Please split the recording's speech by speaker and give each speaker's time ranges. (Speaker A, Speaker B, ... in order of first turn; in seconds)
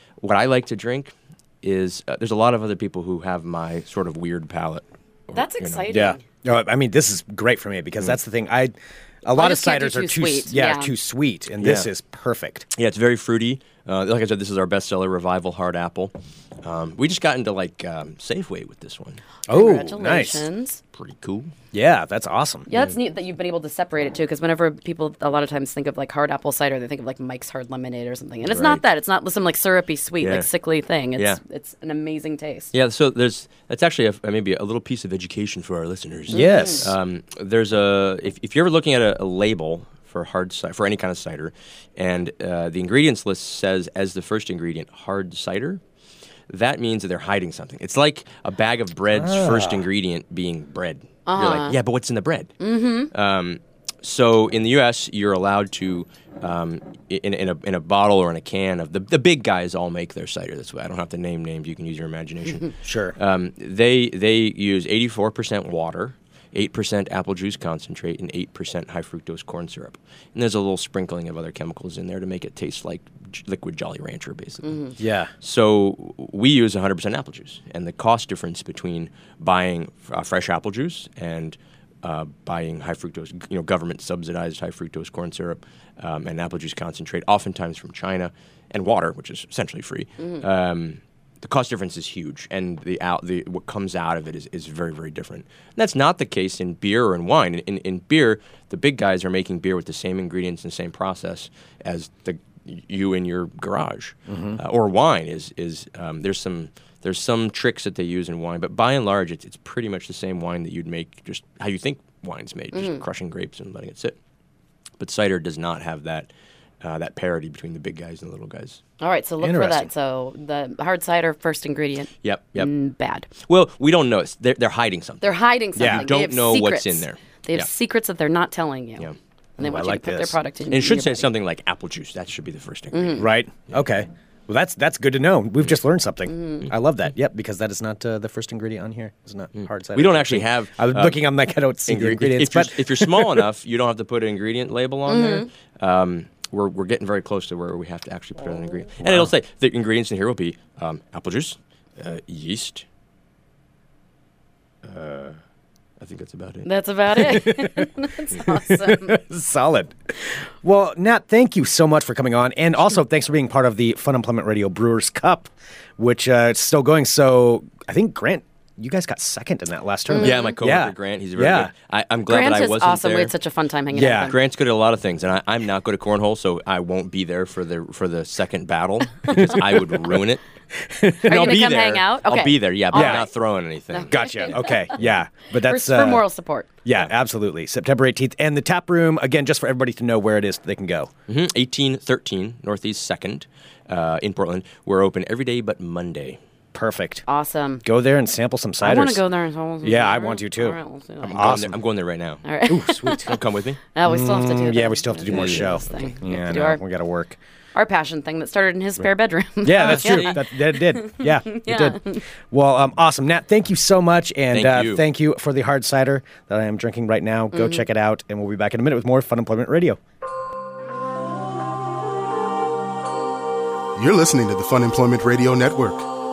Speaker A: 0.2-5.9, 11.6-11.9, 12.8-19.2, 20.9-21.5, 28.4-28.8, 30.2-30.5, 32.7-45.8, 46.5-52.6, 53.1-74.8, 75.4-114.2, 115.0-116.3, 116.8-118.8, 122.2-122.7, 123.4-127.7, 130.7-133.3, 139.6-141.2, 141.9-152.8, 154.8-155.4, 156.0-156.7, 170.2-173.3, 174.2-180.4, 181.3-184.4, 191.3-196.4, 201.2-203.8, 205.3-205.7, 209.8-210.4, 214.5-215.0
Speaker B: 5.3-6.2, 9.3-10.9, 19.5-20.8, 22.7-32.7, 36.3-36.9, 51.3-51.8, 52.6-53.1, 74.6-74.9, 112.7-113.0, 119.0-123.3, 125.2-129.1, 129.6-131.3, 132.9-133.2, 136.3-136.7, 145.1-145.5, 156.7-159.2, 170.1-170.5, 172.3-174.4, 181.3-183.3, 183.9-184.8, 185.6-186.7, 197.3-197.8, 198.8-201.5, 202.4-203.3, 203.9-206.8, 207.8-212.2, 217.5-217.8
Speaker C: 5.9-12.7, 19.5-20.5, 21.7-22.7, 36.3-37.0, 49.1-49.8, 62.8-63.2, 75.0-75.3, 104.3-104.6, 119.4-119.9, 125.8-126.1, 129.6-130.4, 133.2-143.5, 149.0-149.3, 157.2-157.9, 158.5-171.7, 173.9-174.3, 179.3-180.0, 180.8-181.9, 182.9-183.3, 184.1-186.2, 186.8-191.1, 196.7-197.2, 197.8-199.2, 199.8-200.8, 201.3-201.8, 202.7-203.3, 204.1-207.4, 209.6-220.0
Speaker D: 224.0-226.1